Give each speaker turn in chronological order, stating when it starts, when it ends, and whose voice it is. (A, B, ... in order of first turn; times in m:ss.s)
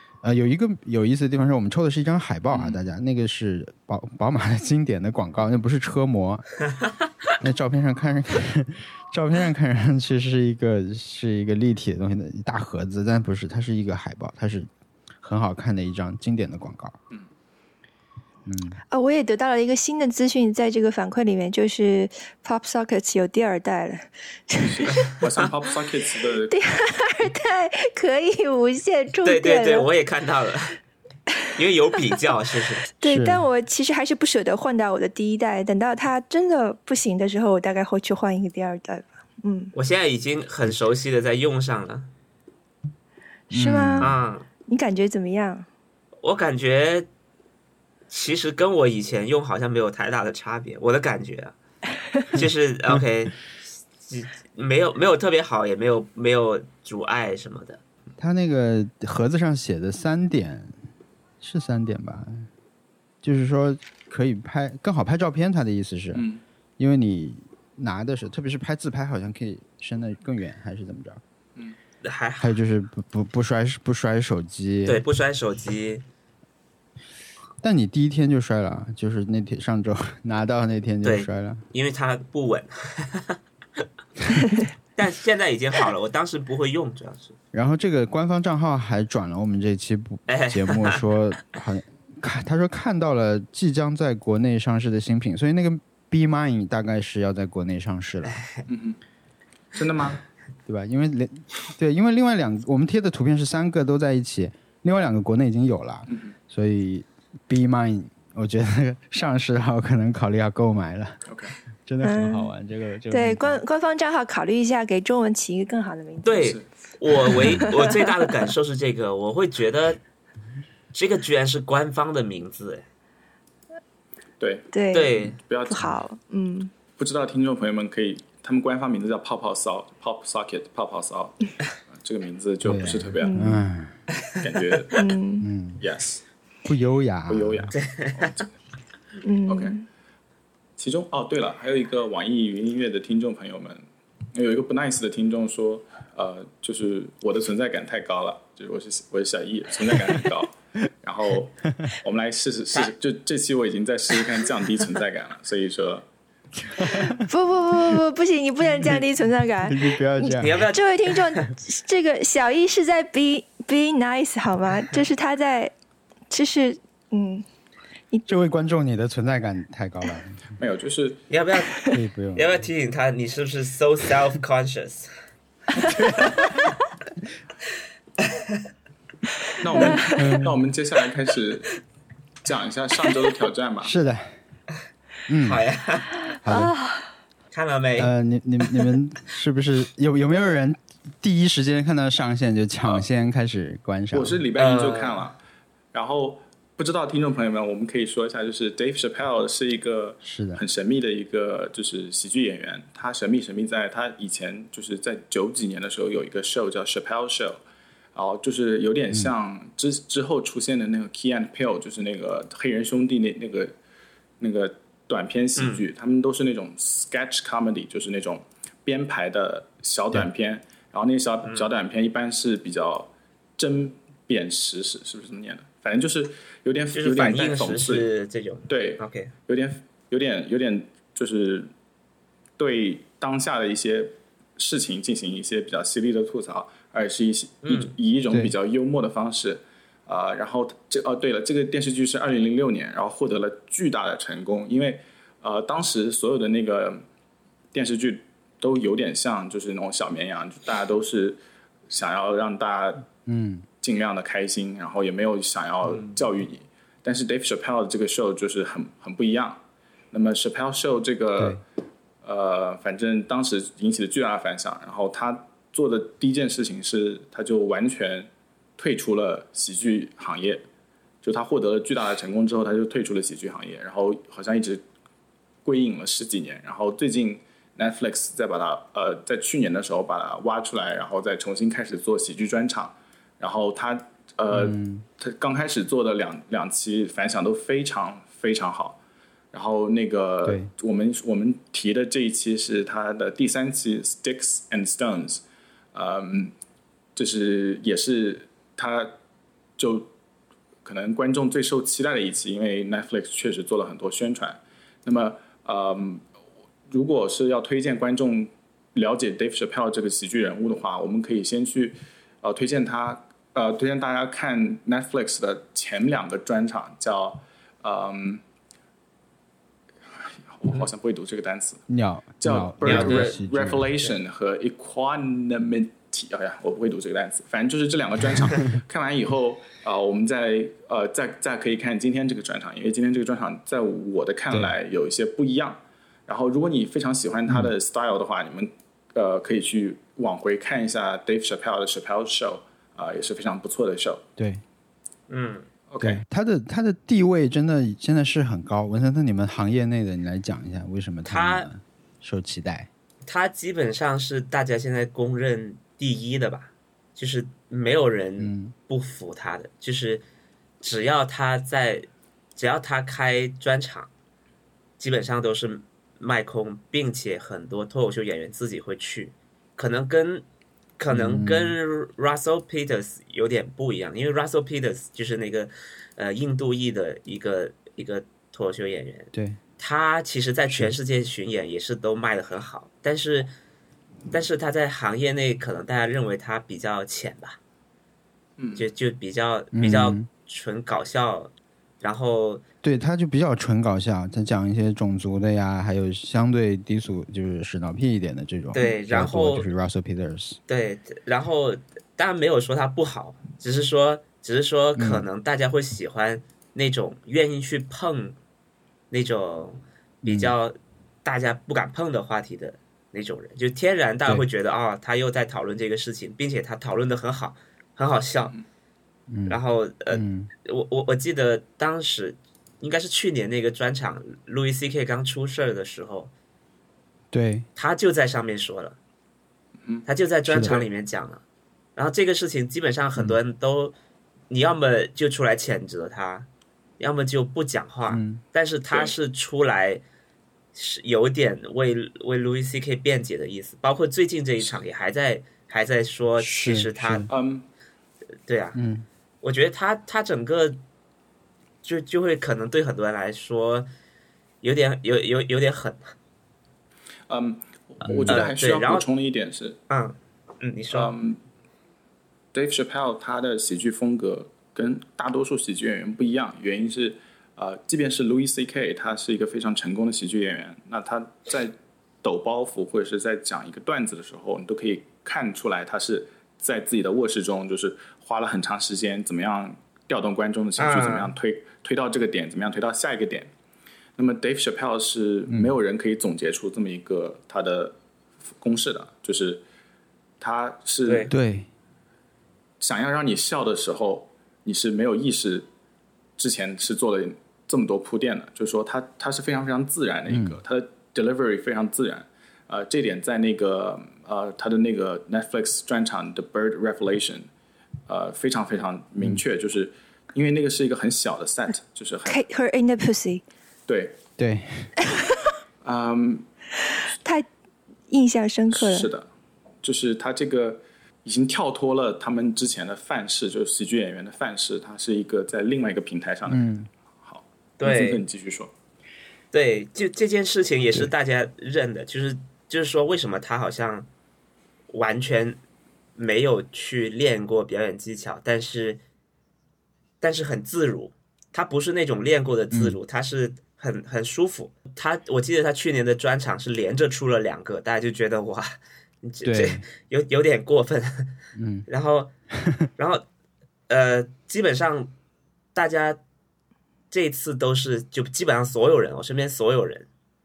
0:00.2-0:06.5 A
0:07.4-0:14.7 A
0:15.2-0:17.0 A
0:18.4-0:18.8 A
0:18.9-0:25.2 B
0:24.6-0:26.5 C
0:26.5-0:29.9 B
0:29.2-0:30.8 D
0:31.5-0:32.9 D
0:33.0-0:39.7 B
0:33.0-0:33.5 A
0:39.7-0:42.1 D
0:43.5-0:45.7 B
0:43.5-0:44.1 A
0:44.0-0:44.4 D
0:46.2-0:47.1 D
0:48.1-0:51.5 D
0:52.3-0:53.4 D
0:54.0-0:57.8 D
0:58.2-1:00.8 A
1:01.4-1:02.5 A
1:03.2-1:06.2 A
1:06.1-1:06.4 C
1:06.8-1:11.2 A
1:12.0-1:12.6 D
1:12.4-1:15.0 A
1:14.8-1:16.0 D
1:17.6-1:21.6 A
1:21.0-1:23.4 D
1:25.0-1:27.4 D
1:27.5-1:38.4 A
1:30.3-1:31.0 D
1:38.2-1:38.6 D
1:38.7-1:39.0 C
1:39.7-1:40.2 C
1:40.6-1:51.2 A
1:46.1-1:46.3 C
1:51.3-1:51.5 C
1:51.8-1:53.6 A
1:52.0-1:52.5 B
1:53.1-1:56.6 B
1:56.2-2:00.0 D
1:56.4-1:56.6 C
1:57.2-1:58.1 B
2:00.9-2:02.8 D
2:04.4-2:06.0 C
2:04.7-2:06.7 B
2:04.9-2:05.4 D
2:07.0-2:13.3 C
2:12.6-2:14.0 A
2:13.2-2:13.6 B
2:14.4-2:15.1 C
2:14.9-2:15.5 B
2:15.4-2:15.8 A
2:15.8-2:16.2 C
2:16.6-2:17.7 A
2:17.3-2:18.5 C
2:17.7-2:18.3 D
2:19.2-2:19.8 B
2:19.5-2:19.8 C
2:20.8-2:23.8 C
2:24.3-2:36.0 C
2:36.8-2:37.2 A
2:37.1-2:45.7 B
2:39.6-2:40.7 A
2:40.4-2:41.4 D
2:46.3-2:47.4 B
2:48.3-2:50.4 A
2:50.6-2:51.2 C
2:51.3-2:55.1 D
2:51.7-2:52.0 B
2:51.9-2:52.6 A
2:55.8-2:56.7 A
2:58.2-2:58.6 D
2:59.6-3:01.8 C
2:59.7-3:00.2 B
3:00.1-3:00.6 A
3:02.4-3:03.9 C
3:03.8-3:04.3 A
3:05.3-3:05.6 A
3:05.4-3:06.2 D
3:06.4-3:06.8 A
3:06.5-3:06.7 B
3:07.5-3:08.1 D
3:08.0-3:14.4 A
3:14.1-3:15.4 C
3:14.6-3:15.3 D
3:15.9-3:27.6 C
3:20.2-3:20.6 A
3:28.1-3:33.7 C
3:34.4-3:48.1 C
3:35.6-3:35.8 D
3:46.9-3:49.3 D
3:48.7-3:51.7 C
3:52.6-4:07.0 C
3:57.6-3:57.9 D
4:07.7-4:13.1 C
4:13.2-4:13.6 A
4:13.8-4:19.6 C
4:20.1-4:21.6 C
4:22.2-4:30.6 C
4:31.2-4:34.8 C
4:35.6-4:49.0 C
4:44.5-4:45.0 A
4:49.5-4:55.4 C
4:55.9-4:56.5 C
4:57.2-4:59.2 C
4:59.8-5:00.1 C
5:00.8-5:06.2 C
5:06.9-5:18.4 C
5:20.2-5:21.8 C
5:21.9-5:23.9 A
5:22.4-5:44.2 C
5:22.8-5:23.4 D
5:44.4-5:44.6 A
5:45.3-5:45.7 D
5:45.9-5:46.2 C
5:46.0-5:52.9 A
5:51.2-5:51.7 D
5:53.2-6:00.2 D
5:58.4-5:58.7 A
6:00.8-6:04.1 D
6:05.0-6:10.4 D
6:11.0-6:23.5 D
6:11.1-6:11.8 A
6:19.3-6:19.6 A
6:24.3-6:27.6 D
6:28.6-6:28.8 C
6:28.8-6:32.6 D
6:29.7-6:30.3 A
6:32.8-6:40.6 A
6:38.7-6:39.7 D
6:40.7-6:48.4 D
6:45.0-6:45.2 A
6:49.1-6:58.6 D
6:50.2-6:50.5 A
6:59.3-6:59.6 A
6:59.5-7:06.3 D
7:00.1-7:00.5 A
7:07.3-7:07.7 A
7:07.8-7:09.0 D
7:10.0-7:11.4 D
7:10.5-7:10.8 A
7:12.0-7:13.9 D
7:14.5-7:16.5 D
7:17.0-7:20.0 D
7:18.1-7:18.4 A
7:20.7-7:27.3 D
7:26.4-7:27.3 A
7:27.3-7:27.7 C
7:28.5-7:28.8 D
7:28.7-7:29.0 A
7:29.4-7:30.8 D
7:31.8-7:33.9 D
7:34.6-7:36.1 D
7:37.3-7:39.8 C
7:38.1-7:38.4 A
7:38.3-7:39.0 D
7:39.9-7:41.1 D
7:40.9-7:41.4 C
7:42.5-8:03.5 C
8:00.8-8:01.3 D
8:04.2-8:08.0 C
8:08.6-8:09.6 C
8:10.4-8:11.3 C
8:11.1-8:11.3 D
8:11.3-8:11.7 A
8:12.8-8:15.6 C
8:16.4-8:27.5 C
8:20.3-8:20.6 A
8:28.1-8:32.4 C
8:32.3-8:33.4 B
8:33.9-8:34.2 C
8:34.4-8:34.9 A
8:35.8-8:36.4 C
8:38.1-8:39.1 B
8:38.7-8:39.3 C
8:39.8-8:46.7 C
8:46.5-8:46.9 A
8:47.2-8:48.7 C
8:47.8-8:48.2 D
8:49.5-8:54.1 D
8:54.9-8:55.6 D
8:56.2-8:59.0 D
9:00.2-9:12.3 D
9:02.7-9:03.0 A
9:09.4-9:09.8 A
9:11.6-9:11.9 A
9:13.0-9:13.2 D
9:13.9-9:15.1 D
9:15.7-9:16.2 D
9:17.1-9:20.1 D